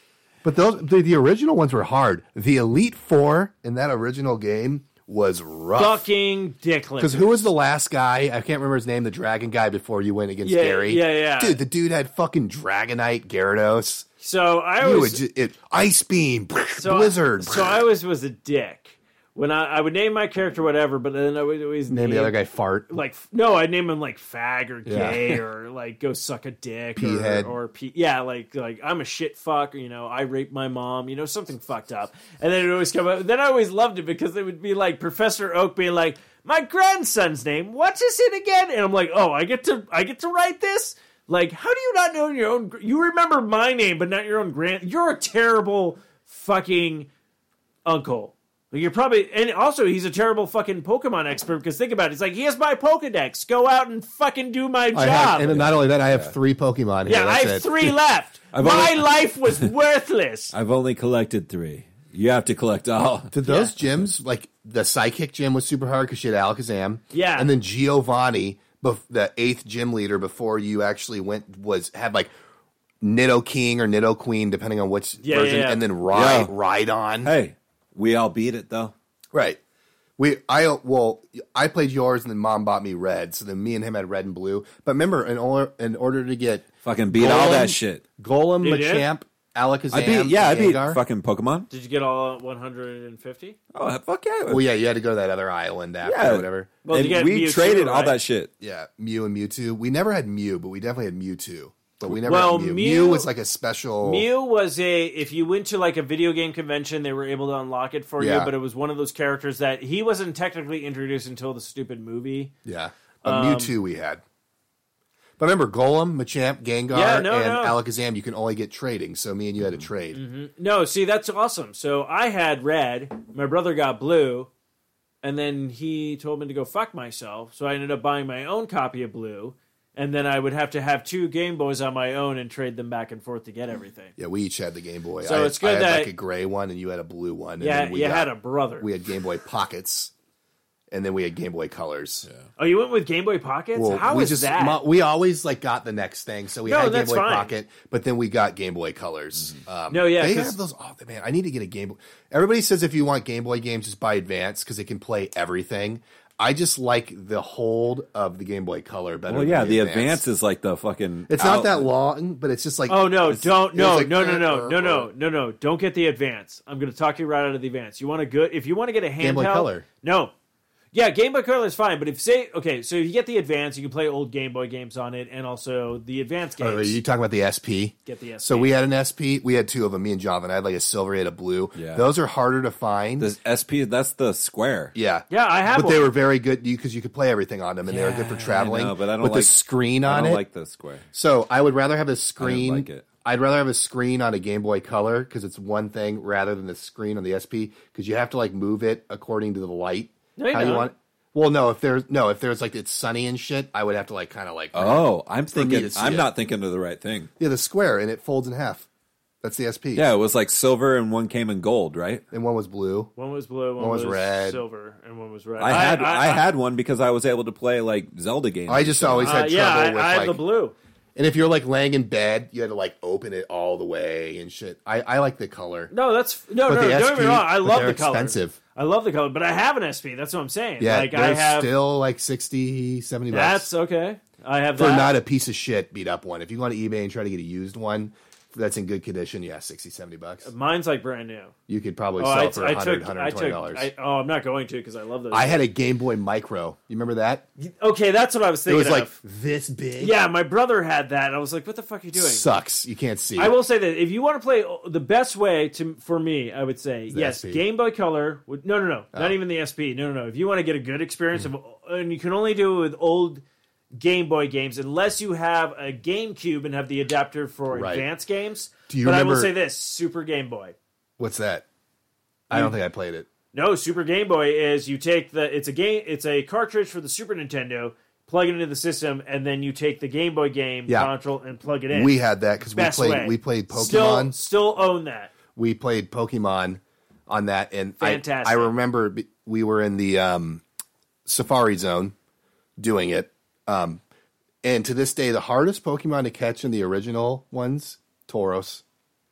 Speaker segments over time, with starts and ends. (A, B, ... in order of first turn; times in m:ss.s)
0:00.4-0:06.0 A
0:05.8-0:07.5 B
0:07.0-0:14.1 A
0:10.4-0:11.6 B
0:14.2-0:15.2 B
0:14.8-0:17.8 A
0:16.8-0:22.4 B
0:21.9-0:23.0 A
0:22.9-0:47.1 B
0:24.9-0:25.2 A
0:27.0-0:27.5 A
0:47.8-0:55.5 B
0:54.9-0:57.9 A
0:55.4-0:56.3 C
0:57.1-1:00.5 B
0:58.5-0:59.7 C
1:00.5-1:03.9 C
1:03.3-1:12.3 A
1:03.5-1:03.7 B
1:07.1-1:07.5 B
1:13.0-1:17.3 A
1:15.2-1:15.8 B
1:16.1-1:16.5 C
1:17.2-1:18.9 C
1:19.3-1:19.6 A
1:20.2-1:31.0 A
1:26.8-1:28.0 C
1:28.6-1:29.1 B
1:29.9-1:31.7 C
1:31.7-1:33.6 B
1:33.7-1:34.6 C
1:34.5-1:36.7 A
1:36.0-1:38.5 C
1:36.8-1:38.2 B
1:38.6-1:44.3 A
1:42.2-1:43.3 B
1:44.0-1:52.5 B
1:48.2-1:48.5 A
1:52.6-1:54.2 A
1:53.2-1:53.7 B
1:55.4-2:00.2 A
1:56.9-1:57.8 B
2:00.1-2:04.5 B
2:05.2-2:14.2 B
2:14.2-2:20.1 A
2:15.2-2:16.1 B
2:17.6-2:18.9 B
2:20.9-2:22.3 A
2:22.6-2:24.8 B
2:23.8-2:40.2 A
2:26.7-2:27.5 B
2:29.9-2:30.6 B
2:39.3-2:41.9 C
2:41.3-2:45.1 A
2:42.9-2:50.3 B
2:49.2-2:49.9 A
2:50.9-2:57.0 B
2:56.6-3:03.3 A
2:58.1-2:58.8 B
3:01.8-3:02.0 C
3:03.2-3:05.0 C
3:05.0-3:10.4 A
3:05.3-3:06.1 B
3:07.9-3:11.1 C
3:11.1-3:26.3 A
3:12.4-3:13.1 C
3:20.4-3:20.9 B
3:24.7-3:27.3 C
3:27.4-3:28.9 A
3:29.4-3:30.1 A
3:30.0-3:32.2 C
3:32.3-3:33.1 A
3:33.2-3:36.4 B
3:33.8-3:34.6 A
3:35.6-3:39.4 C
3:38.7-3:40.4 A
3:39.2-3:40.8 B
3:41.2-3:45.9 A
3:45.9-3:51.7 B
3:46.7-3:48.6 A
3:50.8-3:53.7 A
3:53.3-3:55.2 B
3:54.8-4:00.5 A
4:00.4-4:01.5 B
4:01.7-4:03.9 A
4:02.2-4:05.6 B
4:05.3-4:07.4 A
4:07.6-4:09.2 B
4:08.7-4:10.2 A
4:10.0-4:12.5 B
4:12.1-4:13.6 A
4:13.4-4:23.4 B
4:17.1-4:17.6 A
4:24.0-4:30.8 B
4:27.7-4:28.1 A
4:28.9-4:29.5 A
4:31.2-4:31.6 A
4:32.5-4:33.3 A
4:33.5-4:45.3 B
4:40.9-4:41.1 A
4:41.9-4:44.4 A
4:45.6-4:50.6 A
4:48.0-4:48.7 B
4:51.3-4:52.2 A
4:52.8-4:54.0 A
4:54.6-4:58.8 A